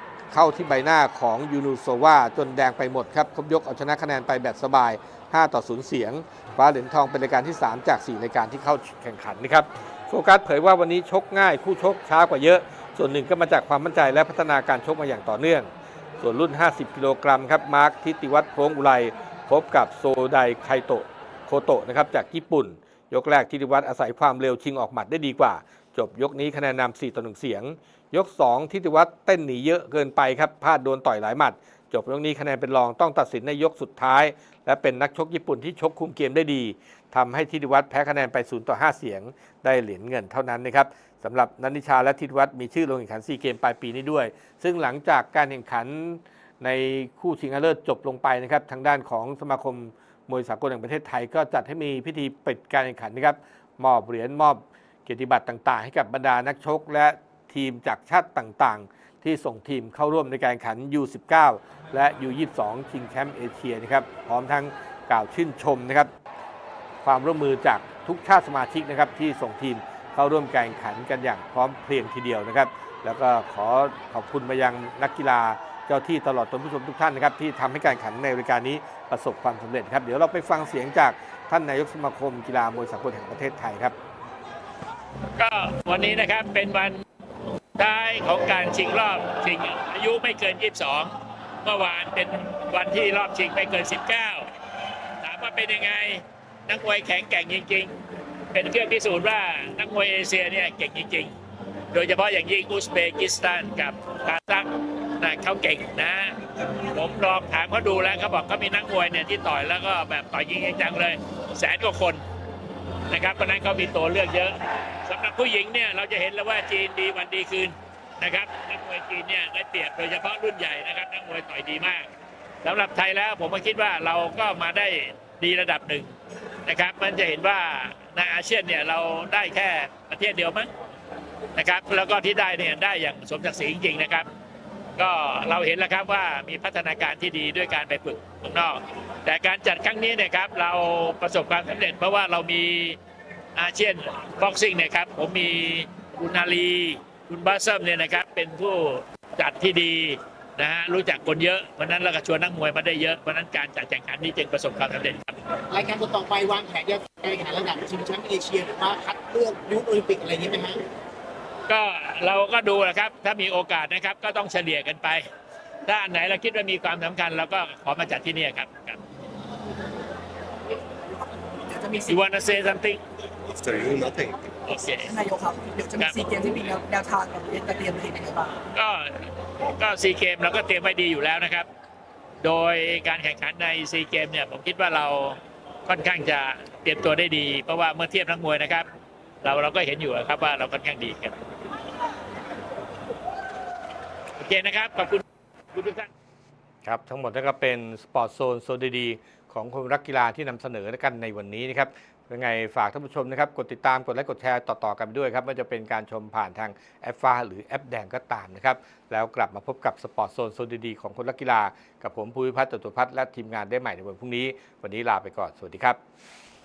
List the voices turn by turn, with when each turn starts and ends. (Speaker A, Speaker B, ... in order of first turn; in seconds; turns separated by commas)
Speaker A: 0.3-66.1, Speaker A: 67.0-84.0, Speaker B: 85.4-87.0, Speaker B: 87.8-94.5, Speaker B: 95.2-97.9, Speaker B: 98.5-101.3, Speaker B: 101.9-112.2, Speaker B: 113.1-122.1, Speaker B: 122.6-126.1, Speaker B: 126.7-130.7, Speaker B: 131.6-134.3, Speaker B: 135.0-143.0, Speaker B: 143.6-155.4, Speaker C: 155.7-160.8, Speaker B: 161.7-165.2, Speaker B: 165.9-169.0, Speaker D: 171.7-172.2, Speaker B: 172.1-173.0, Speaker D: 173.7-174.3, Speaker B: 174.7-175.1, Speaker D: 175.0-178.6, Speaker B: 178.8-181.7, Speaker B: 182.4-188.9, Speaker B: 189.4-191.4, Speaker B: 194.4-195.2, Speaker B: 195.7-196.1, Speaker A: 196.8-216.0